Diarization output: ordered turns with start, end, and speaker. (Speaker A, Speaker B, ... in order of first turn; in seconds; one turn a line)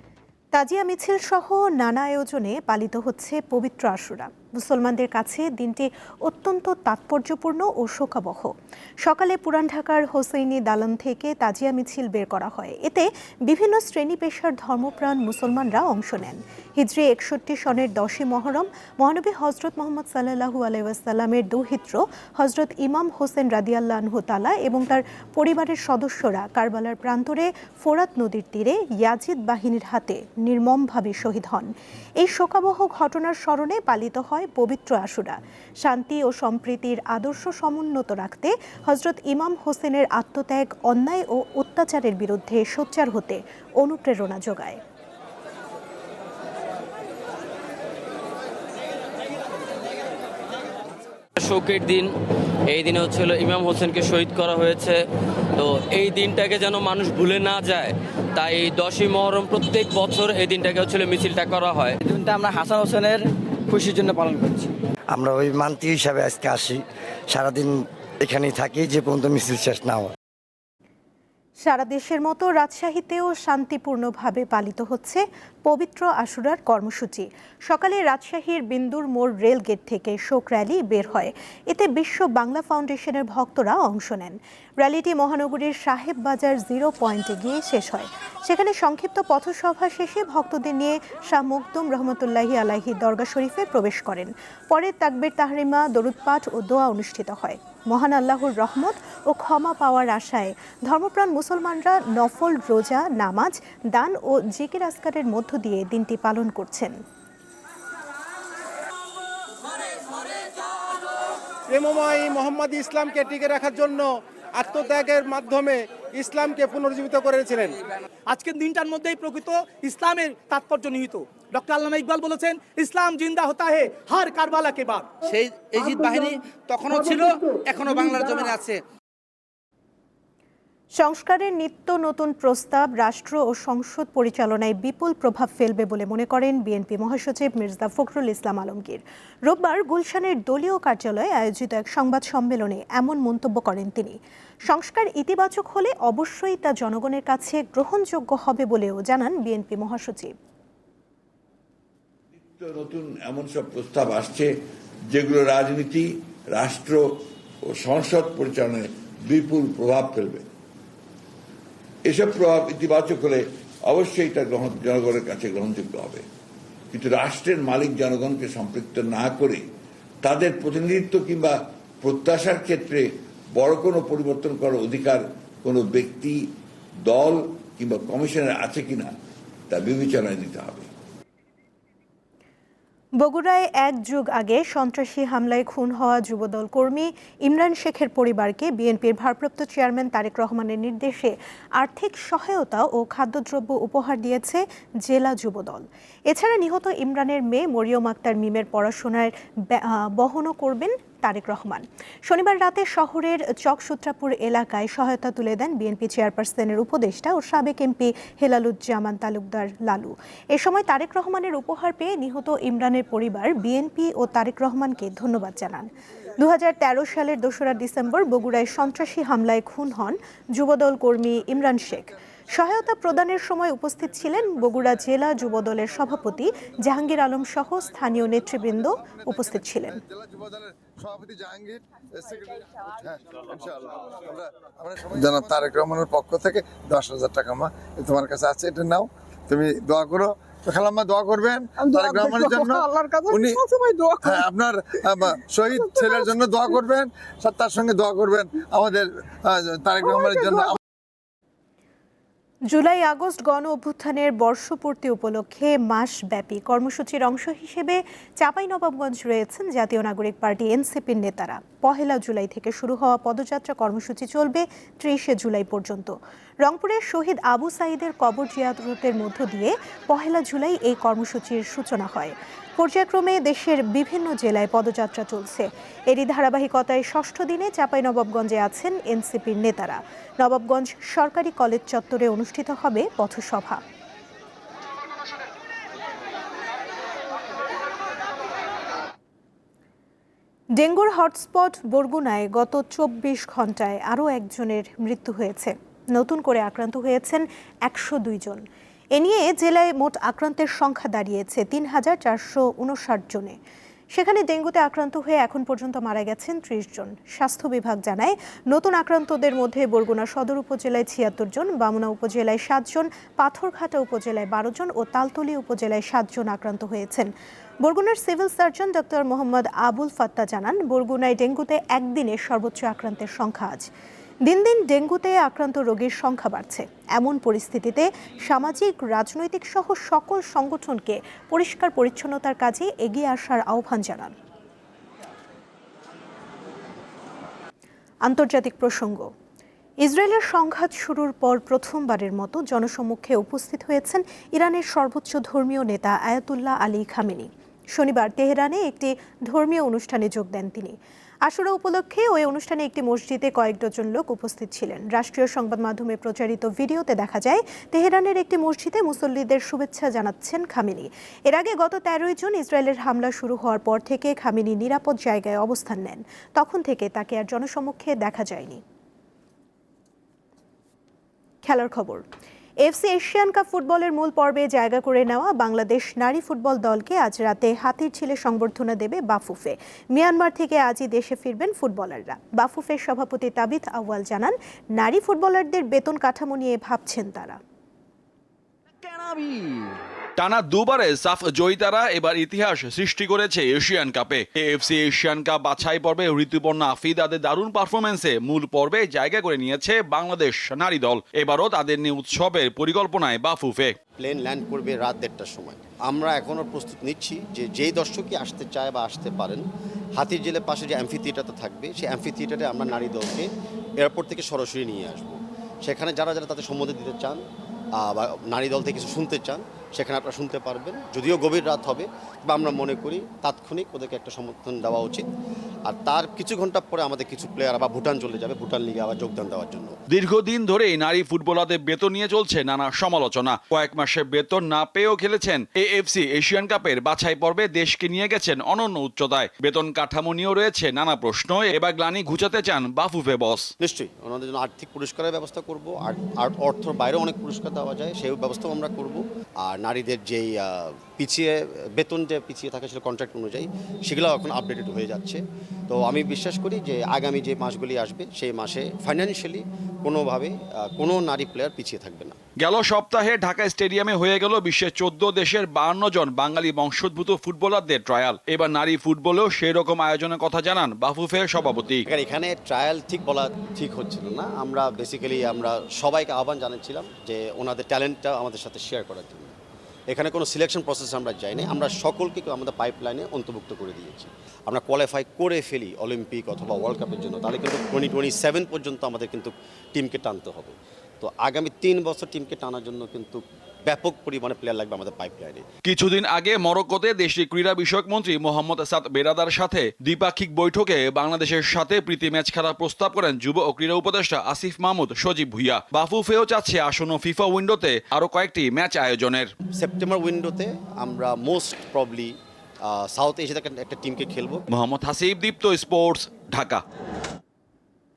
Speaker A: 0.5-8.5
Speaker A: 9.0-31.7
Speaker A: 32.2-44.8
Speaker B: 51.4-52.1
Speaker B: 52.7-55.0
Speaker B: 55.6-62.0
Speaker C: 62.0-64.7
Speaker D: 65.1-70.1
Speaker A: 71.7-107.0
Speaker E: 111.7-117.8
Speaker F: 118.3-125.2
Speaker G: 125.3-128.8
Speaker F: 127.0-127.4
Speaker A: 131.0-144.2
Speaker A: 144.7-150.3
Speaker H: 152.5-154.5
Speaker H: 155.1-157.0
Speaker H: 157.7-160.4
Speaker H: 162.1-166.2
Speaker H: 166.9-169.6
Speaker H: 170.2-176.5
Speaker H: 177.1-179.1
Speaker H: 179.7-180.9
Speaker A: 183.2-230.0
Speaker I: 229.2-243.7
Speaker D: 241.8-244.4
Speaker I: 244.2-250.8
Speaker D: 245.7-246.3
Speaker D: 250.0-250.7
Speaker A: 252.7-283.8
Speaker A: 290.8-298.6
Speaker A: 299.1-303.6
Speaker A: 304.1-317.3
Speaker A: 317.8-323.9
Speaker A: 324.5-334.3
Speaker A: 338.3-339.3
Speaker A: 340.0-368.8
Speaker A: 371.6-372.2
Speaker A: 372.9-387.6
Speaker J: 390.4-403.9
Speaker K: 404.2-417.4
Speaker K: 418.0-425.3
Speaker K: 425.9-430.0
Speaker J: 430.1-443.7
Speaker K: 443.8-462.4
Speaker J: 462.6-472.1
Speaker K: 472.1-479.6
Speaker K: 480.1-495.6
Speaker J: 495.8-509.5
Speaker K: 509.8-514.6
Speaker J: 514.7-516.8